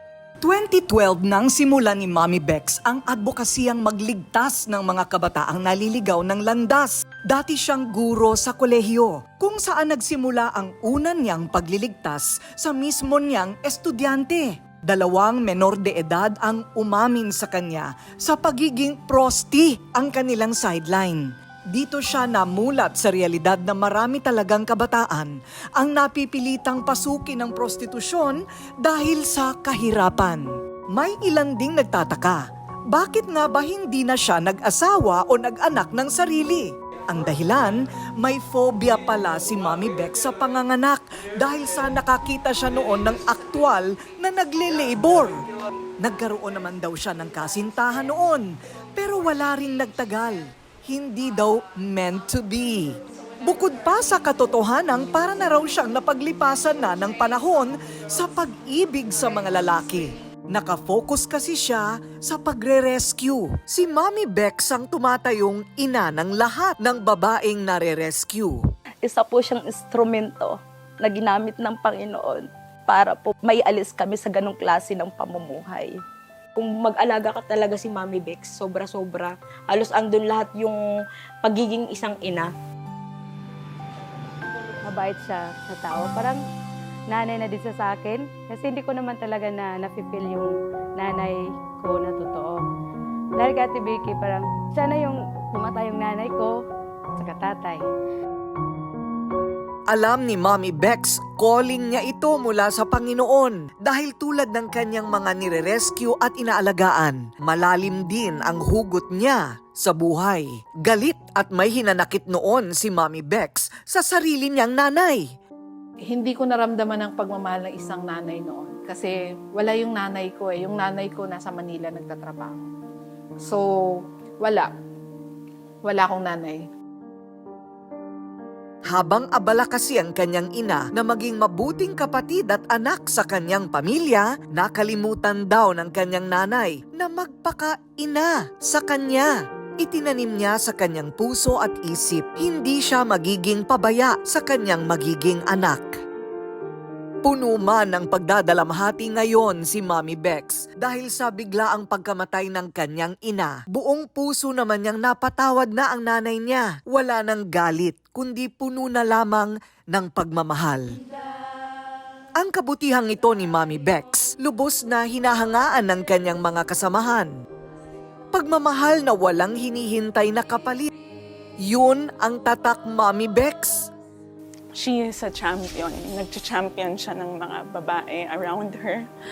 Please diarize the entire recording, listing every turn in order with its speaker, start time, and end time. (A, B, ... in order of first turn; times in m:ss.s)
0:00.4-0:45.4 A
0:46.0-1:08.6 A
1:09.0-1:16.0 B
1:16.6-1:20.8 C
1:21.4-1:22.5 C
1:24.8-1:26.4 D
1:27.1-1:32.6 D
1:33.4-1:36.6 D
1:37.2-1:37.9 D
1:39.9-1:55.3 A
1:56.1-2:02.6 E
2:04.4-2:04.7 E
2:05.9-2:06.6 E
2:08.9-2:26.0 A
2:27.2-2:41.0 A
2:42.4-2:47.3 A
2:48.3-2:50.9 A
2:51.6-2:53.9 A
2:54.8-2:59.1 F